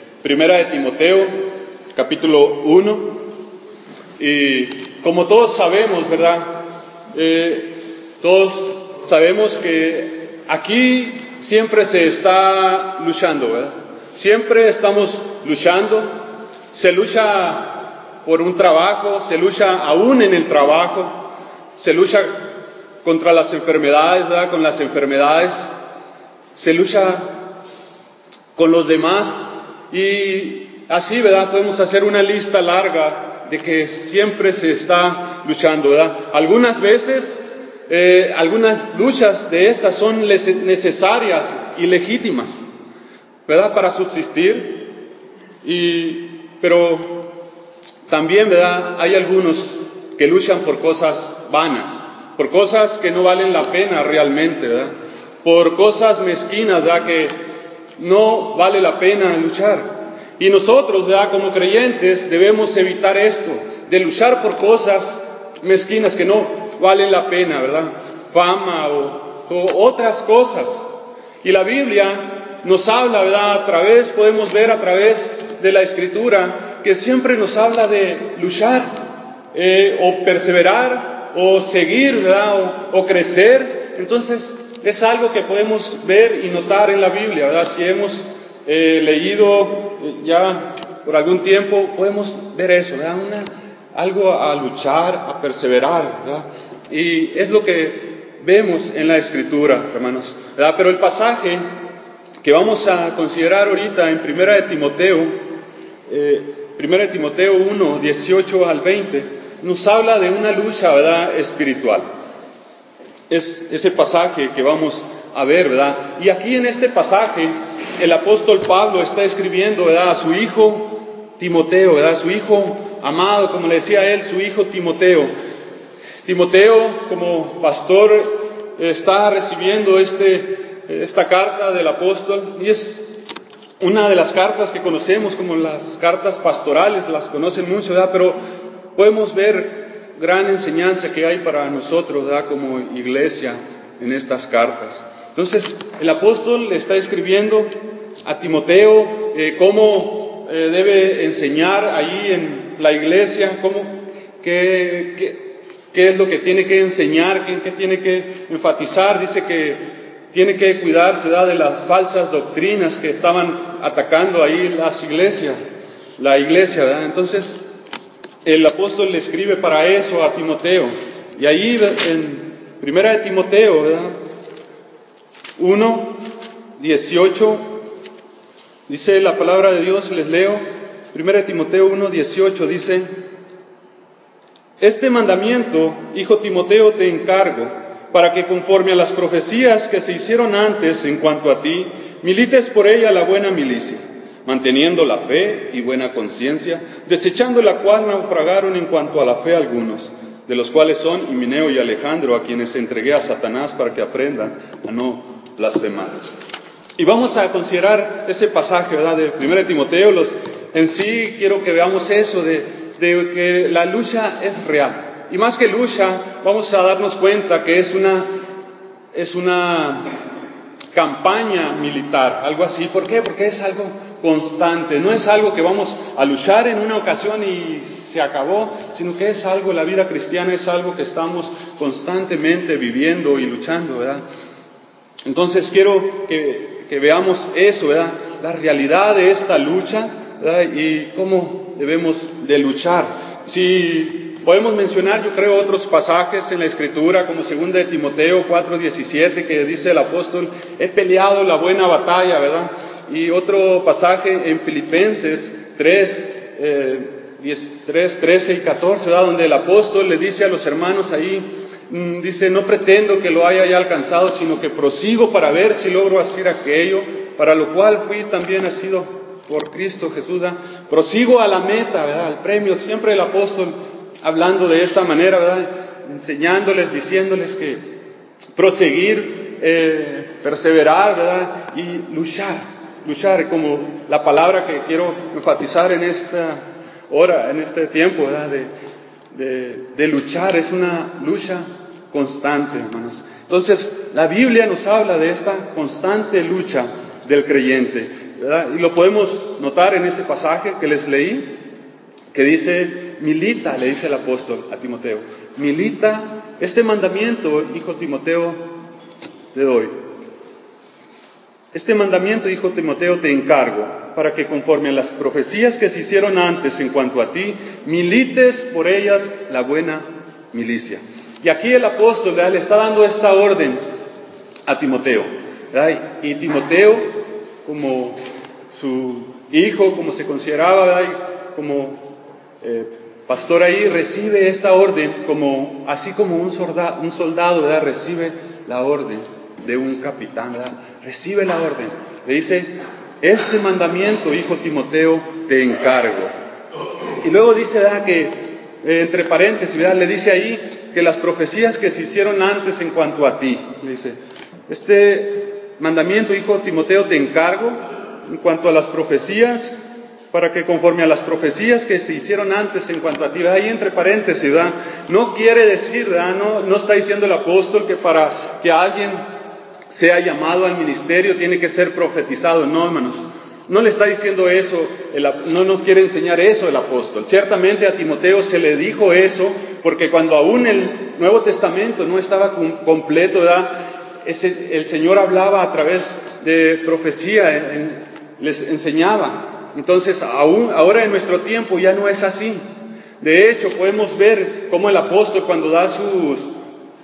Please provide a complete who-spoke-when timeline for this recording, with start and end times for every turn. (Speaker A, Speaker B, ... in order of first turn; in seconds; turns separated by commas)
Speaker A: 0.2-3.2, Speaker A: 4.2-16.2, Speaker A: 16.7-22.5, Speaker A: 23.0-25.7, Speaker A: 26.6-27.4, Speaker A: 28.6-42.6, Speaker A: 43.5-44.9, Speaker A: 45.6-47.4, Speaker A: 48.1-57.4, Speaker A: 58.0-70.9, Speaker A: 71.4-78.9, Speaker A: 79.5-101.7, Speaker A: 102.4-105.4, Speaker A: 106.1-112.1, Speaker A: 113.3-125.3, Speaker A: 126.2-133.2, Speaker A: 133.8-138.4, Speaker A: 138.9-165.6, Speaker A: 166.2-167.7, Speaker A: 168.4-174.2, Speaker A: 175.6-176.2, Speaker A: 176.8-177.8, Speaker A: 178.9-183.1, Speaker A: 184.8-206.3, Speaker A: 207.0-218.3, Speaker A: 219.1-220.1, Speaker A: 220.9-234.2, Speaker A: 235.2-277.8, Speaker A: 278.6-288.7, Speaker A: 289.3-301.6, Speaker A: 302.3-308.8, Speaker A: 309.5-309.9, Speaker A: 311.7-323.8, Speaker A: 324.7-328.2, Speaker A: 328.7-346.3, Speaker A: 347.2-354.2, Speaker A: 354.7-359.8, Speaker A: 360.3-369.2, Speaker A: 369.9-392.6, Speaker A: 393.2-396.5